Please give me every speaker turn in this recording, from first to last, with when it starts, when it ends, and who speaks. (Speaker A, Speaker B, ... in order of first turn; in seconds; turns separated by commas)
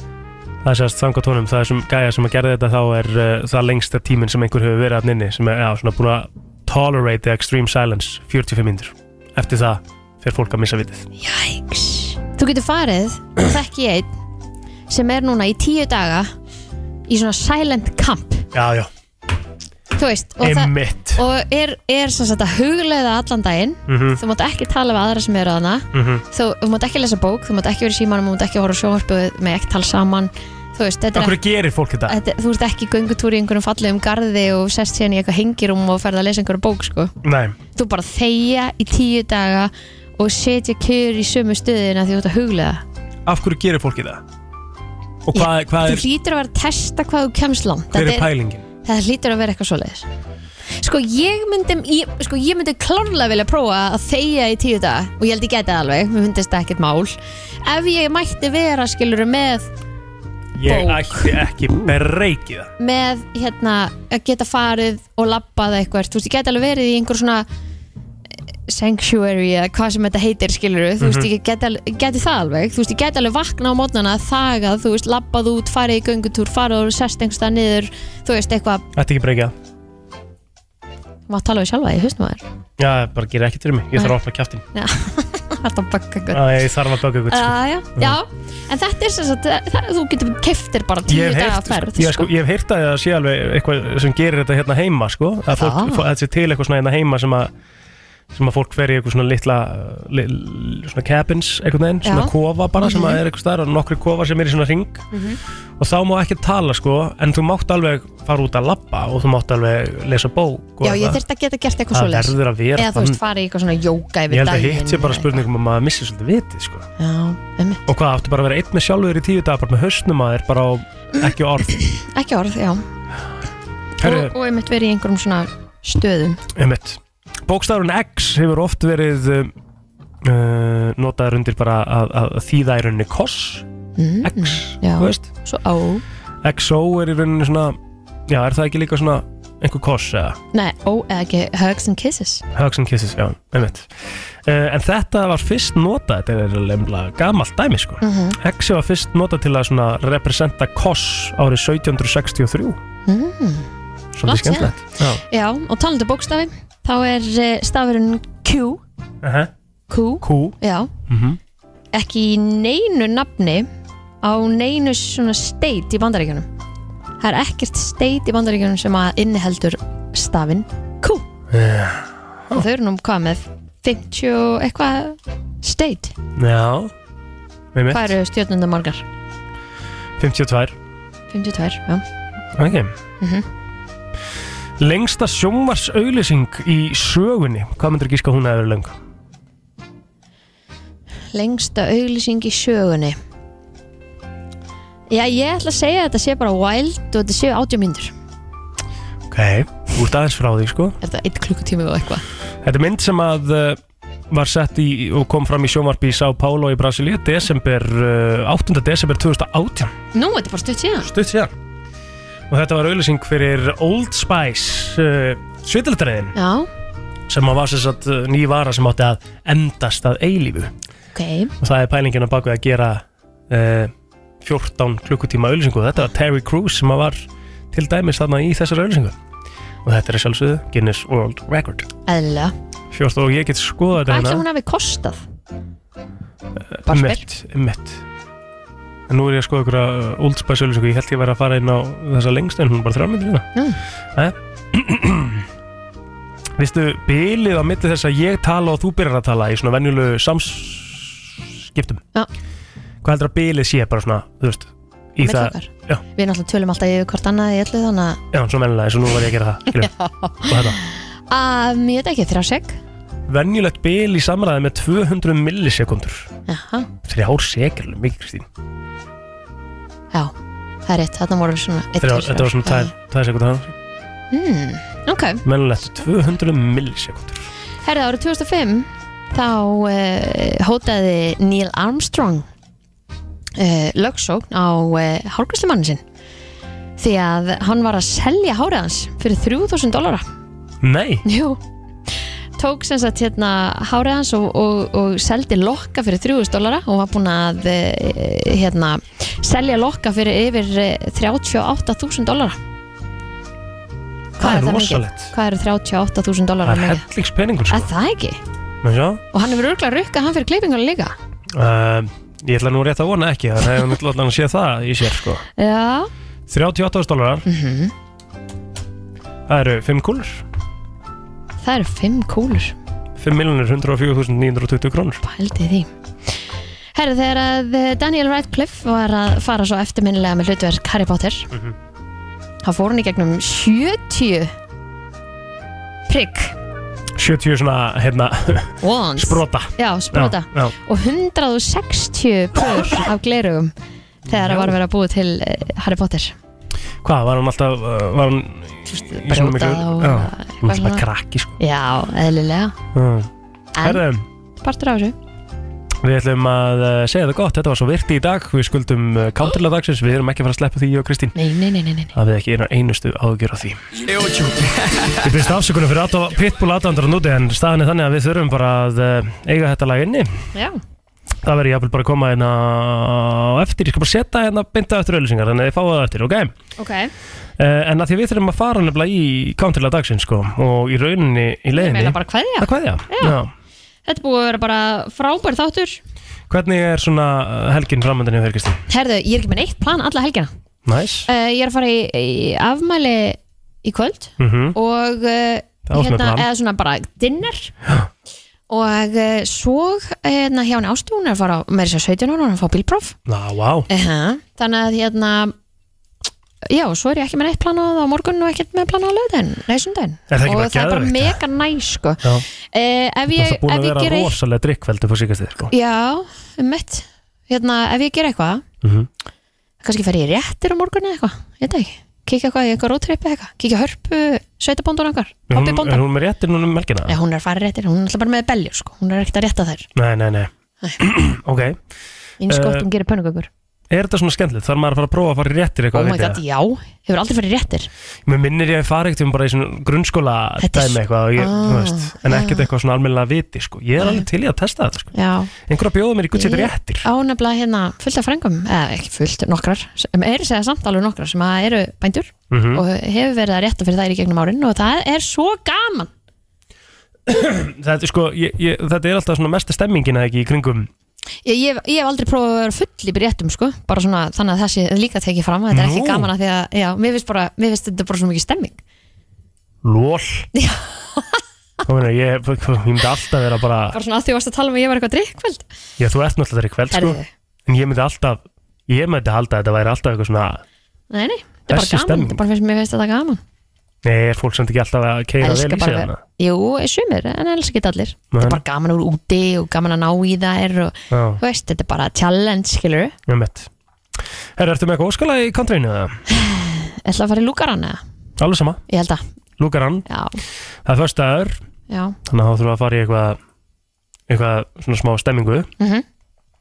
Speaker A: 0.6-11.1, Speaker B: 11.2-14.2, Speaker B: 14.9-16.3, Speaker B: 17.1-18.5, Speaker A: 18.5-18.9, Speaker B: 20.0-31.4, Speaker A: 20.4-21.2, Speaker A: 23.9-24.2, Speaker A: 25.9-26.2, Speaker A: 31.1-32.2, Speaker B: 32.1-37.1, Speaker A: 37.2-37.6, Speaker B: 37.7-42.8, Speaker A: 43.2-44.2, Speaker A: 45.2-46.0, Speaker B: 45.3-48.3, Speaker A: 47.9-48.6, Speaker B: 48.8-50.1, Speaker B: 50.8-59.7, Speaker A: 60.6-62.7, Speaker B: 60.6-61.3, Speaker B: 62.8-67.5, Speaker B: 68.7-78.8, Speaker A: 71.0-71.3, Speaker A: 78.9-79.5, Speaker B: 81.3-82.4, Speaker A: 82.8-84.6, Speaker B: 84.7-86.6, Speaker A: 86.3-88.2, Speaker B: 87.3-92.3, Speaker A: 91.1-97.5, Speaker B: 95.5-96.0, Speaker A: 98.3-105.1, Speaker B: 102.0-103.2, Speaker B: 105.1-105.4, Speaker A: 105.8-111.2, Speaker B: 110.8-115.4, Speaker A: 111.9-113.2, Speaker A: 114.3-116.9, Speaker B: 117.0-117.8, Speaker A: 117.9-121.8, Speaker B: 121.8-122.8, Speaker A: 124.0-124.3, Speaker B: 124.0-126.4, Speaker A: 126.5-129.5, Speaker A: 130.2-133.7, Speaker B: 134.0-136.0, Speaker A: 134.2-135.3, Speaker A: 136.4-140.4, Speaker B: 140.5-142.4, Speaker A: 142.5-152.8, Speaker B: 148.0-148.4, Speaker B: 153.1-153.7, Speaker A: 154.1-155.2, Speaker B: 154.2-158.8, Speaker A: 159.2-159.5, Speaker B: 159.9-160.9, Speaker A: 160.2-160.6, Speaker A: 161.1-161.4, Speaker B: 161.9-163.7, Speaker B: 164.2-166.5, Speaker B: 167.2-171.3, Speaker A: 171.5-172.7, Speaker B: 172.5-176.1, Speaker A: 176.3-176.9, Speaker A: 177.7-178.1, Speaker B: 177.9-179.0, Speaker A: 180.2-180.8, Speaker B: 181.3-182.0, Speaker A: 182.5-182.9, Speaker B: 183.2-183.4, Speaker A: 184.8-189.0, Speaker B: 191.3-193.2, Speaker B: 195.1-198.1, Speaker A: 199.3-201.0, Speaker B: 201.0-202.2, Speaker A: 202.6-209.9, Speaker B: 210.1-211.1, Speaker A: 211.0-211.5, Speaker A: 212.5-216.3, Speaker B: 216.3-216.7, Speaker A: 217.3-220.7, Speaker B: 221.1-221.5, Speaker A: 221.6-229.2, Speaker A: 229.8-231.9, Speaker B: 232.1-232.5, Speaker A: 232.9-234.4, Speaker B: 234.0-235.2, Speaker A: 236.7-238.0, Speaker B: 236.8-237.2, Speaker A: 239.1-243.5, Speaker A: 244.1-245.5, Speaker A: 246.6-252.0, Speaker A: 253.0-256.0, Speaker B: 255.2-258.2, Speaker A: 258.3-259.9, Speaker B: 259.8-262.8, Speaker A: 260.4-260.8, Speaker A: 263.3-266.3, Speaker B: 266.5-266.9, Speaker A: 267.0-268.4, Speaker B: 270.9-272.9, Speaker A: 272.0-273.7, Speaker B: 274.3-275.4, Speaker A: 275.4-277.5, Speaker B: 277.8-282.4, Speaker B: 283.6-286.0, Speaker B: 287.0-290.2, Speaker A: 290.8-291.2, Speaker B: 291.2-302.6, Speaker A: 304.4-305.3, Speaker B: 304.4-307.0, Speaker A: 306.6-307.9, Speaker B: 307.7-308.4, Speaker A: 308.8-309.2, Speaker B: 309.3-311.1, Speaker A: 311.5-315.4, Speaker B: 315.6-316.1, Speaker A: 316.5-317.4, Speaker B: 317.4-317.9, Speaker A: 319.5-320.4, Speaker B: 321.6-322.7, Speaker A: 323.2-325.2, Speaker B: 325.2-326.4, Speaker B: 326.9-331.5, Speaker B: 332.6-334.5, Speaker B: 336.1-336.5, Speaker A: 337.1-340.7, Speaker B: 338.8-343.7, Speaker B: 344.2-346.4, Speaker A: 344.3-344.8, Speaker A: 347.0-351.6, Speaker B: 348.9-351.0, Speaker B: 351.6-352.8, Speaker A: 352.9-354.2, Speaker B: 353.8-354.0, Speaker B: 354.6-355.1, Speaker A: 356.0-361.4, Speaker B: 361.4-362.1, Speaker A: 362.1-363.8, Speaker A: 365.2-370.5, Speaker B: 370.5-370.8, Speaker A: 371.4-376.5, Speaker B: 376.8-377.1, Speaker A: 377.6-383.5, Speaker B: 381.7-383.4, Speaker B: 384.1-386.0, Speaker A: 386.5-388.8, Speaker B: 388.9-390.5, Speaker A: 390.9-391.3, Speaker B: 391.3-397.7, Speaker A: 394.4-394.8, Speaker A: 395.9-396.5, Speaker B: 398.7-403.1, Speaker A: 403.2-403.9, Speaker B: 403.9-405.5, Speaker B: 406.6-414.3, Speaker A: 410.3-411.4, Speaker A: 413.3-415.7, Speaker B: 415.7-418.6, Speaker A: 418.8-419.1, Speaker B: 419.8-426.0, Speaker A: 425.5-427.2, Speaker B: 427.1-429.9, Speaker A: 429.9-431.8, Speaker B: 432.4-433.5, Speaker A: 432.5-432.9, Speaker A: 433.9-436.4, Speaker B: 435.9-437.9, Speaker A: 438.2-447.1, Speaker B: 440.6-442.7, Speaker B: 444.0-444.2, Speaker B: 445.1-445.5, Speaker B: 446.3-456.1, Speaker A: 452.5-452.8, Speaker A: 457.3-460.9, Speaker B: 461.4-468.8, Speaker A: 465.7-466.3, Speaker A: 469.8-470.5, Speaker B: 470.5-471.4, Speaker A: 471.9-474.0, Speaker B: 473.9-475.6, Speaker A: 476.0-480.6, Speaker B: 476.9-477.3, Speaker B: 481.1-483.4, Speaker A: 481.7-482.4, Speaker A: 484.0-486.2, Speaker B: 485.4-493.1, Speaker A: 488.3-488.6, Speaker A: 491.1-491.4, Speaker A: 493.3-493.7, Speaker A: 494.6-496.2, Speaker B: 496.3-498.0, Speaker A: 498.4-498.8, Speaker B: 498.9-499.2, Speaker A: 499.6-500.1, Speaker B: 500.1-500.4, Speaker A: 500.8-501.6, Speaker B: 501.9-502.1, Speaker A: 502.2-503.4, Speaker A: 504.3-505.7, Speaker B: 505.8-506.0